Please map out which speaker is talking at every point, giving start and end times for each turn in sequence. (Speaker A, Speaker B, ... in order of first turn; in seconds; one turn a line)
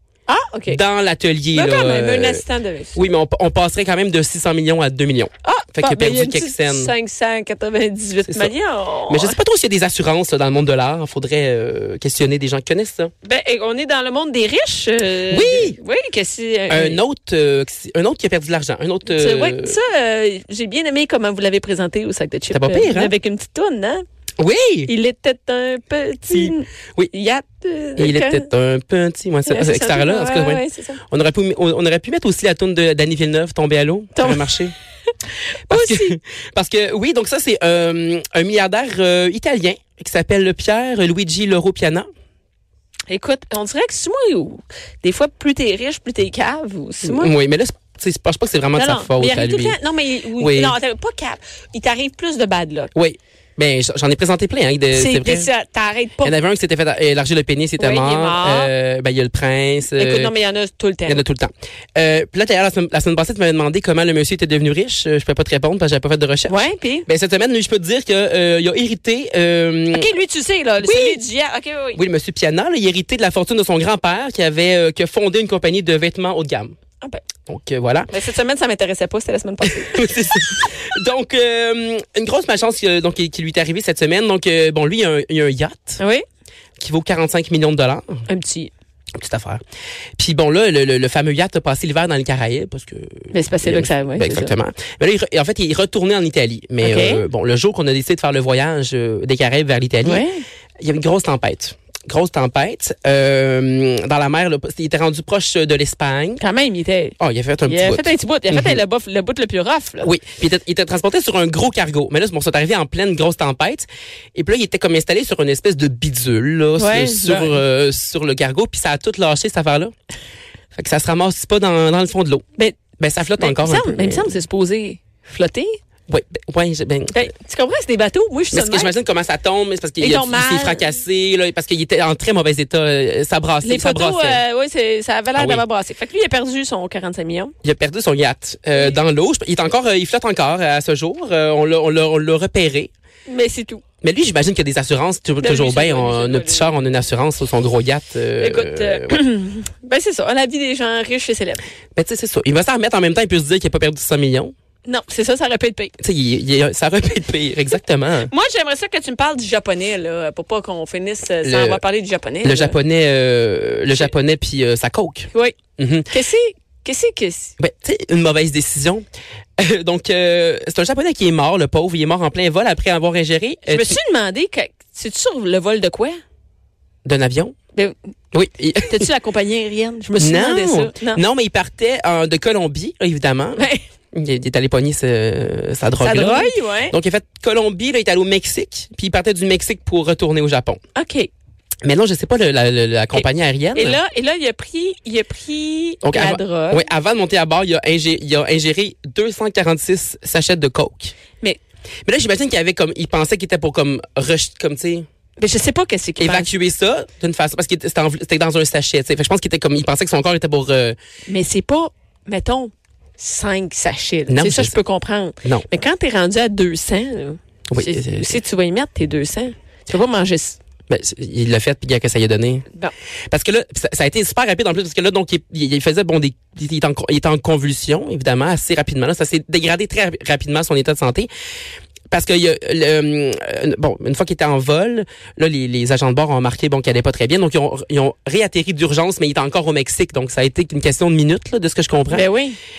Speaker A: 0.3-0.8
Speaker B: 0.7-2.4
Speaker A: 1.5-3.0
Speaker B: 2.9-6.9
Speaker A: 5.4-9.4
Speaker B: 8.2-8.5
Speaker B: 9.1-13.1
Speaker A: 13.2-17.0
Speaker B: 15.3-15.8
Speaker B: 16.7-19.8
Speaker A: 19.1-24.0
Speaker B: 22.5-23.1
Speaker B: 24.4-24.9
Speaker A: 24.9-28.5
Speaker B: 26.3-27.1
Speaker B: 28.0-34.7
Speaker A: 29.5-31.0
Speaker A: 34.1-34.5
Speaker A: 35.7-36.1
Speaker B: 35.7-42.1
Speaker A: 43.1-47.3
Speaker B: 47.0-49.8
Speaker A: 48.7-52.9
Speaker B: 50.4-50.7
Speaker B: 52.9-55.5
Speaker A: 54.9-56.3
Speaker B: 56.2-60.3
Speaker A: 57.8-58.7
Speaker A: 60.0-61.2
Speaker B: 61.0-70.1
Speaker A: 66.5-67.1
Speaker A: 69.9-72.0
Speaker B: 70.8-71.2
Speaker B: 71.9-76.7
Speaker B: 77.5-78.1
Speaker A: 78.1-80.1
Speaker B: 79.9-86.0
Speaker A: 86.0-86.2
Speaker B: 86.8-88.2
Speaker A: 88.3-88.7
Speaker B: 89.2-89.6
Speaker B: 90.2-100.2
Speaker A: 93.3-94.5
Speaker A: 96.8-97.2
Speaker A: 100.0-100.4
Speaker B: 100.8-106.4
Speaker A: 106.4-110.1
Speaker B: 107.2-108.8
Speaker B: 110.0-119.9
Speaker A: 116.8-117.6
Speaker B: 120.7-122.4
Speaker B: 123.0-124.3
Speaker A: 123.4-125.8
Speaker B: 126.1-127.2
Speaker A: 127.1-128.9
Speaker B: 128.5-134.4
Speaker A: 130.0-130.9
Speaker A: 133.6-137.5
Speaker B: 135.3-135.6
Speaker B: 137.6-142.9
Speaker A: 143.3-143.8
Speaker B: 144.0-149.2
Speaker A: 145.4-146.7
Speaker A: 148.4-151.6
Speaker B: 151.9-154.5
Speaker A: 154.8-155.9
Speaker B: 156.0-158.3
Speaker A: 158.3-162.8
Speaker B: 161.4-161.8
Speaker B: 162.4-166.1
Speaker A: 166.1-167.5
Speaker B: 167.6-169.0
Speaker B: 169.6-174.0
Speaker A: 173.7-176.2
Speaker B: 177.0-177.5
Speaker B: 178.3-179.1
Speaker A: 178.8-181.2
Speaker B: 180.2-190.8
Speaker A: 183.6-183.8
Speaker A: 186.0-186.9
Speaker A: 190.9-191.3
Speaker B: 191.8-194.0
Speaker A: 193.1-196.8
Speaker B: 196.0-201.1
Speaker B: 202.1-205.1
Speaker A: 205.4-206.5
Speaker B: 206.2-211.0
Speaker A: 211.3-220.6
Speaker B: 214.3-214.8
Speaker B: 215.4-215.7
Speaker B: 217.7-218.4
Speaker B: 220.9-222.6
Speaker B: 223.3-231.3
Speaker B: 232.1-242.3
Speaker A: 242.1-242.6